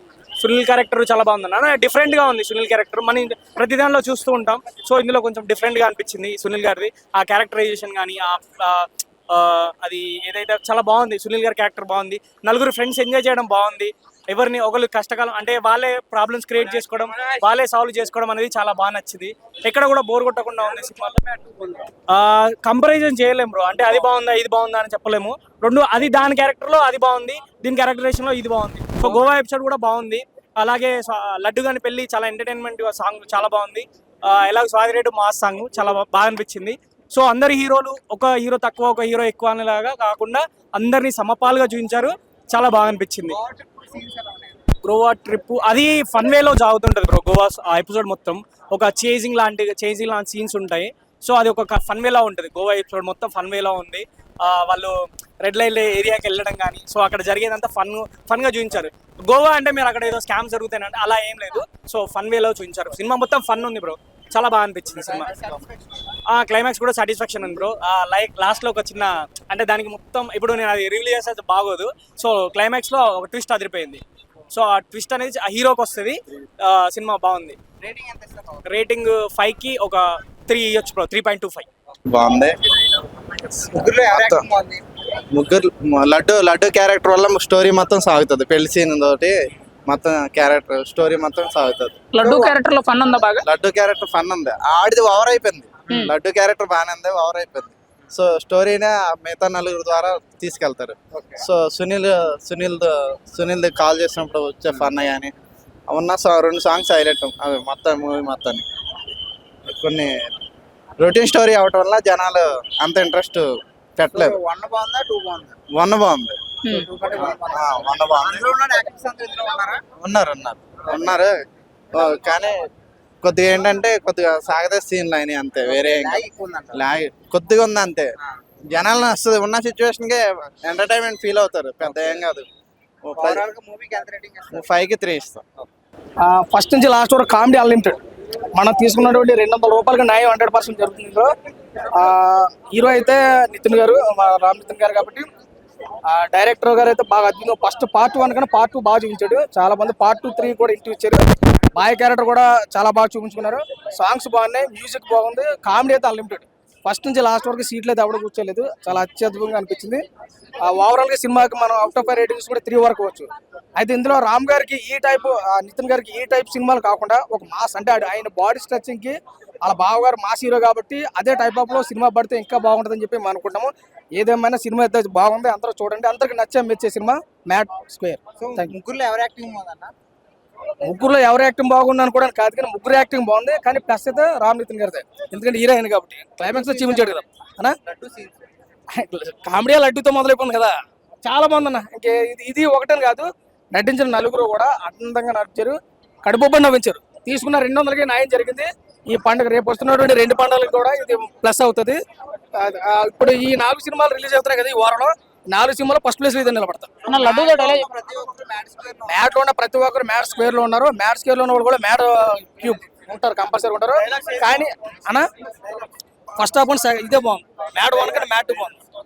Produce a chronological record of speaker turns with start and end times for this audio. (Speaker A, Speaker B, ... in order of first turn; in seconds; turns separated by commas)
Speaker A: 0.4-21.2, Speaker B: 21.2-21.8, Speaker A: 22.1-43.4, Speaker B: 43.4-44.5, Speaker A: 44.8-65.4, Speaker B: 65.3-65.6, Speaker A: 66.3-77.6, Speaker B: 77.8-78.6, Speaker A: 78.7-81.7, Speaker C: 82.1-82.6, Speaker C: 83.4-84.5, Speaker B: 83.7-84.8, Speaker C: 85.3-89.3, Speaker C: 89.9-92.0, Speaker D: 92.1-93.5, Speaker B: 92.2-92.5, Speaker C: 93.4-105.3, Speaker C: 105.9-108.7, Speaker C: 109.7-110.1, Speaker C: 111.0-114.4, Speaker B: 114.1-115.5, Speaker C: 115.7-116.4, Speaker B: 116.8-119.8, Speaker C: 117.2-118.5, Speaker C: 120.0-121.3, Speaker C: 121.9-122.5, Speaker C: 123.2-128.1, Speaker B: 125.6-126.8, Speaker C: 128.7-132.4, Speaker C: 133.0-133.4, Speaker B: 133.2-134.6, Speaker C: 134.5-135.4, Speaker E: 136.2-138.0, Speaker E: 138.5-141.3, Speaker E: 141.9-145.2, Speaker E: 146.1-160.0, Speaker E: 160.6-178.7, Speaker B: 178.4-179.9, Speaker E: 180.9-187.8, Speaker B: 186.4-187.2, Speaker B: 187.8-188.5, Speaker E: 188.9-190.7, Speaker E: 191.2-202.0, Speaker E: 202.6-207.1, Speaker D: 207.0-207.9, Speaker B: 207.2-209.3, Speaker E: 209.0-215.2, Speaker B: 214.1-214.5, Speaker E: 216.3-218.8